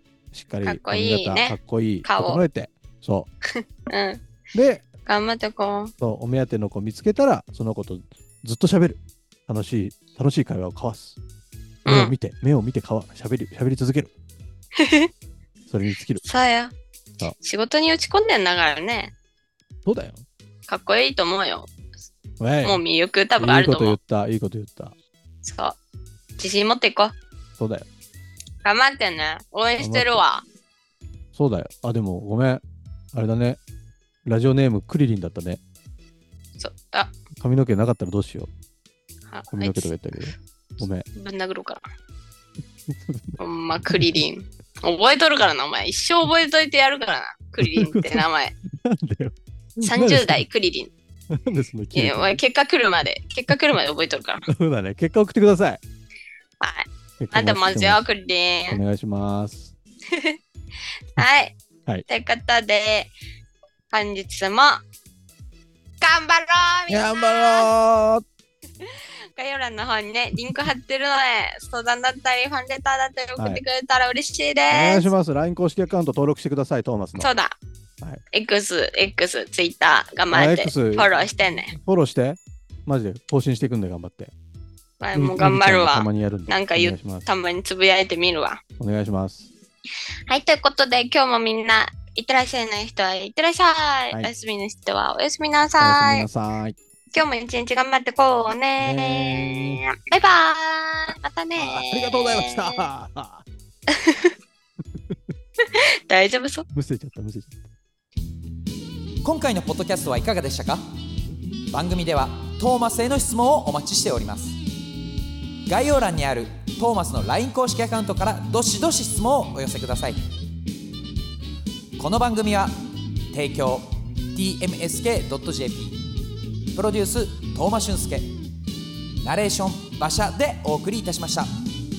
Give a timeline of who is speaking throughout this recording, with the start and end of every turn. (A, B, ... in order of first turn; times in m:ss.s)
0:00.3-0:03.3 A
0:00.6-0:02.4 B
0:03.5-0:04.2 B
0:04.5-0:04.8 A
0:05.0-0:05.9 B
0:06.0-0:11.2 A
0:11.8-0:14.1 A
0:11.9-0:12.1 B
0:14.8-0:15.1 B
0:15.7-0:16.2 A
0:16.2-0:16.7 B
0:17.4-0:19.1 B
0:19.8-0:20.2 A
0:20.7-0:21.7 B
0:22.4-0:22.8 A
0:22.6-0:24.0 B
0:23.4-0:24.9 A
0:25.4-0:25.8 B
0:26.4-0:27.2 B
0:27.6-0:27.8 A
0:28.6-0:30.4 B
0:29.8-0:30.2 A
0:31.3-0:33.6 A
0:34.2-0:35.6 A
0:36.6-0:37.1 B
0:37.4-0:38.5 A
0:39.3-0:39.9 B
0:39.5-0:41.0 A
0:41.2-0:41.8 B
0:42.9-0:43.4 A
0:43.4-0:48.5 B
0:47.6-0:50.4 A
0:49.8-0:50.9 B
0:51.3-0:52.4 A
0:51.9-0:54.5 B
0:54.5-0:55.8 A
0:56.6-0:58.8 B
0:57.2-0:58.0 A
0:58.7-0:59.7 A
1:00.1-1:00.4 B
1:01.2-1:01.6 B
1:02.1-1:03.1 B
1:03.9-1:04.8 B
1:06.0-1:07.7 B
1:06.9-1:08.2 A
1:08.8-1:15.1 B
1:13.4-1:13.6 A
1:14.7-1:17.3 A
1:17.1-1:17.6 B
1:18.3-1:21.8 B
1:20.3-1:24.3 A
1:25.0-1:28.6 B
1:25.1-1:27.3 A
1:28.8-1:29.5 A
1:30.3-1:36.2 B
1:35.8-1:36.8 A
1:37.1-1:42.8 B
1:38.8-1:39.8 A
1:41.6-1:43.4 A
1:43.9-1:44.3 B
1:45.7-1:46.6 B
1:46.7-1:47.6 A
1:49.2-1:50.8 C
1:51.7-1:54.6 C
1:55.6-2:00.2 C
2:02.0-2:02.7 C
2:03.3-2:06.0 C
2:06.7-2:08.3 C
2:09.2-2:11.5 C